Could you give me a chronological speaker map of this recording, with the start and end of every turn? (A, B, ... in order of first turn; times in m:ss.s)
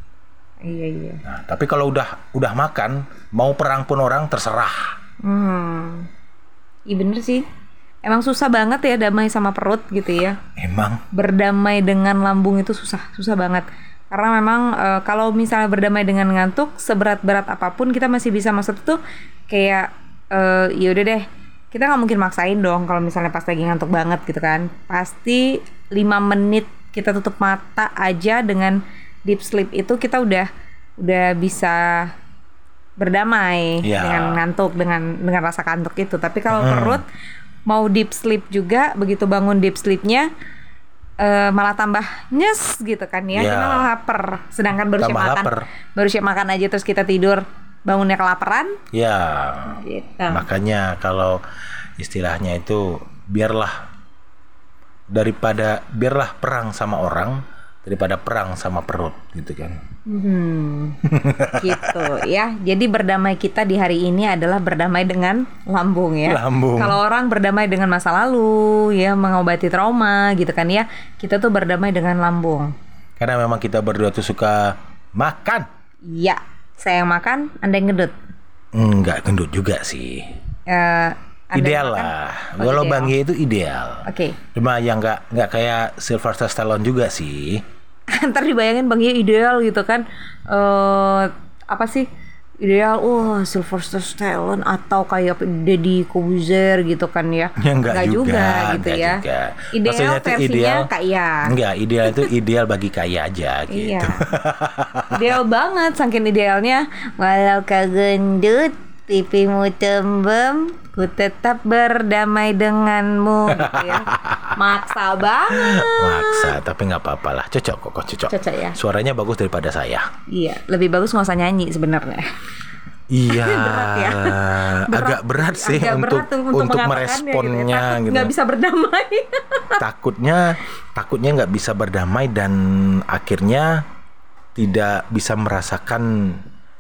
0:00.6-0:01.2 A
0:01.2-0:05.0 B
0:05.2-0:06.1 A
0:06.9-0:07.4 A
0:08.0-0:10.4 A
0:10.6-0:11.0 B
0:11.1-0:30.5 A
0:31.0-0:32.1 A
0:33.0-0:37.0 A
0:33.8-0:34.4 B
0:36.5-0:37.0 B
0:37.7-0:40.3 A
0:41.2-0:48.8 A
0:43.3-0:43.9 B
0:45.0-0:45.7 B
0:48.9-0:51.4 B
0:49.8-0:50.5 A
0:52.0-0:53.8 B
0:55.1-0:59.8 B
1:00.1-1:01.0 A
1:01.0-1:02.1 B
1:01.6-1:12.7 A
1:06.2-1:07.0 B
1:13.2-1:15.7 B
1:16.1-1:18.1 A
1:18.7-1:20.3 B
1:20.7-1:23.1 A
1:21.5-1:27.6 B
1:24.1-1:24.4 A
1:28.1-1:32.1 A
1:32.6-1:39.2 A
1:37.6-1:40.9 B
1:39.7-1:41.5 A
1:41.5-1:45.3 B
1:43.7-1:44.2 A
1:45.1-1:56.6 A
1:53.5-1:54.6 B
1:55.5-2:00.1 B
1:58.3-1:58.8 A
2:00.3-2:02.3 A
2:03.1-2:08.3 B
2:03.3-2:09.8 A
2:09.8-2:13.8 B
2:14.6-2:16.4 B